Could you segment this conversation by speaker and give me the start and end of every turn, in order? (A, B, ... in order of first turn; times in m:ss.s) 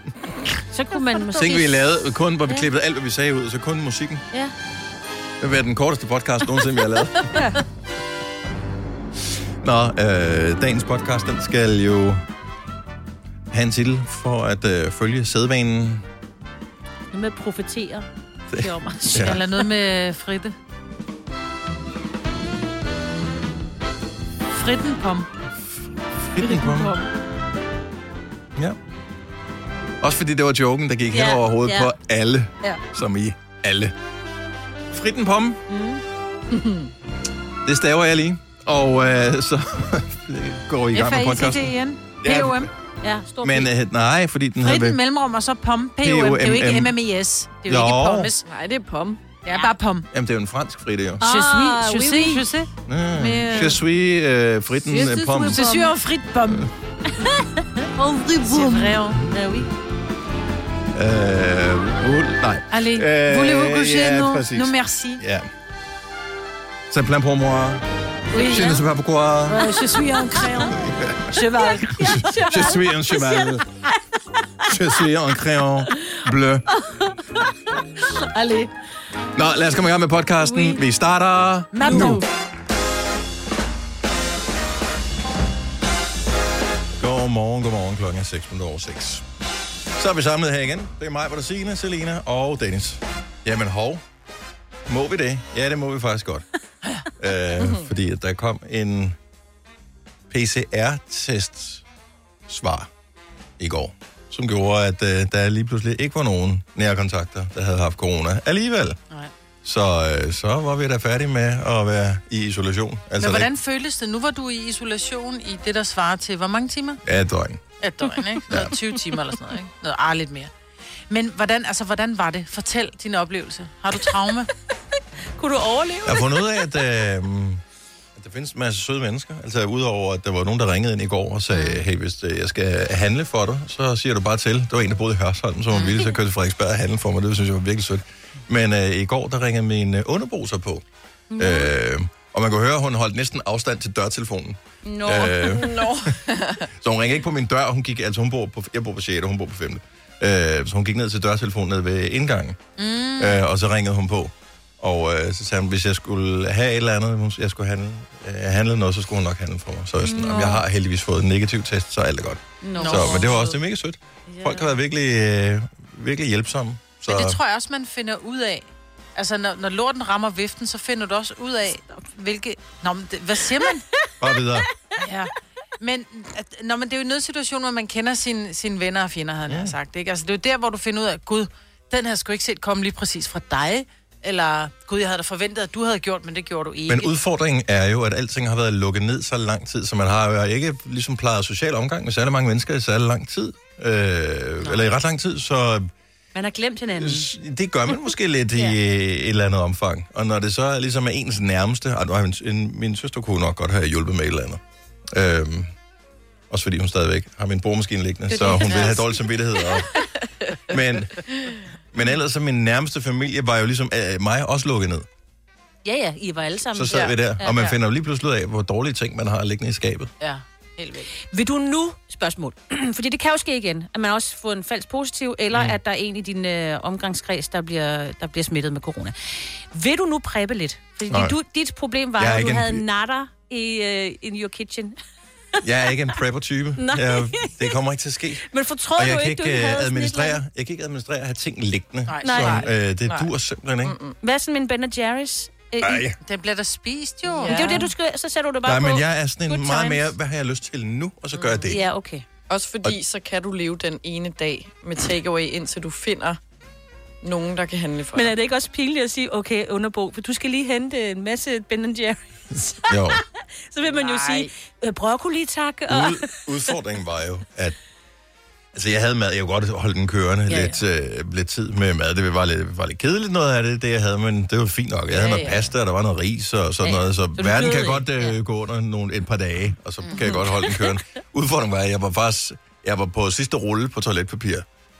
0:00.7-0:01.8 A
0:01.3-0:04.2 B
0:05.4-0:07.4 B
0:09.3-0:12.2 B
0:13.5-0:16.1 B
0:17.1-0:19.6 A
0:18.5-0:19.4 B
0:19.1-0:20.5 C
0:24.5-0:25.3 C
0:25.7-0:27.0 B
0:30.0-0:33.9 B
0:31.1-0:31.9 A
0:34.9-0:35.6 B
0:35.7-0:36.0 A
0:36.5-0:36.9 D
0:37.6-0:42.7 B
0:40.9-0:42.7 C
0:43.0-0:43.7 A
0:43.4-0:45.0 B
0:44.6-0:48.4 C
0:46.0-0:46.9 B
0:47.7-0:48.3 B
0:48.4-0:49.2 D
0:49.4-0:50.1 C
0:50.1-0:51.2 B
0:51.2-0:52.5 A
0:51.2-0:53.8 C
0:52.9-0:55.7 B
0:54.9-0:56.7 C
0:55.4-0:55.9 A
0:57.2-0:57.9 A
0:58.0-0:59.2 C
0:58.4-0:59.7 A
1:00.9-1:05.5 B
1:02.7-1:05.2 C
1:06.9-1:09.7 B
1:08.3-1:08.8 C
1:09.5-1:10.8 C
1:10.7-1:13.6 B
1:11.3-1:12.7 C
1:12.2-1:13.6 A
1:14.7-1:16.6 B
1:18.3-1:18.7 C
1:19.3-1:22.2 B
1:20.5-1:20.8 A
1:21.7-1:22.2 C
1:21.8-1:22.2 A
1:27.0-1:29.2 B
1:30.0-1:34.0 B
1:34.9-1:36.4 B
1:37.2-1:39.2 B
1:37.6-1:37.9 D
1:40.3-1:41.8 B
1:42.5-1:42.9 B
1:43.6-1:49.0 B
1:49.6-1:53.5 B
1:53.2-1:57.0 C
1:57.0-1:57.6 B
1:57.8-2:00.5 C
1:58.5-1:58.8 B
2:01.1-2:04.5 C
2:05.4-2:06.5 A
2:06.0-2:07.6 B
2:08.2-2:20.8 B
2:21.3-2:21.7 A
2:21.4-2:26.1 B
2:24.9-2:26.7 D
2:26.8-2:32.6 B
2:32.8-2:33.4 C
2:33.2-2:47.4 B
2:40.0-2:40.6 A
2:42.6-2:43.6 A
2:42.8-2:43.4 C
2:44.3-2:44.7 A
2:47.1-2:53.8 C
2:54.2-2:54.7 B
2:55.0-3:07.1 C
2:59.5-2:59.7 B
3:06.9-3:15.9 B
3:16.3-3:17.3 A
3:16.9-3:25.7 B
3:26.5-3:29.9 B
3:28.3-3:29.2 A
3:30.7-3:31.3 B
3:31.9-3:35.1 B
3:35.8-3:37.7 A
3:36.7-3:40.1 B
3:40.2-3:41.1 C
3:41.3-3:55.0 A
3:51.1-3:51.3 B
3:52.2-3:52.8 B
3:55.6-4:04.0 B
3:56.8-3:57.8 A
3:58.4-4:00.4 A
4:02.1-4:02.7 C
4:02.2-4:02.6 A
4:02.4-4:03.3 D
4:03.8-4:04.2 D
4:04.2-4:06.1 A
4:05.8-4:06.2 B
4:06.2-4:07.6 C
4:07.3-4:07.9 D
4:07.5-4:10.1 A
4:08.6-4:11.8 B
4:11.3-4:11.7 C
4:11.7-4:12.2 A
4:12.5-4:16.4 D
4:17.2-4:18.3 D
4:18.1-4:26.7 A
4:22.9-4:23.2 B
4:23.9-4:24.5 C
4:25.9-4:27.8 B
4:28.7-4:44.6 B
4:30.5-4:30.7 C
4:35.1-4:35.7 D
4:36.8-4:38.3 A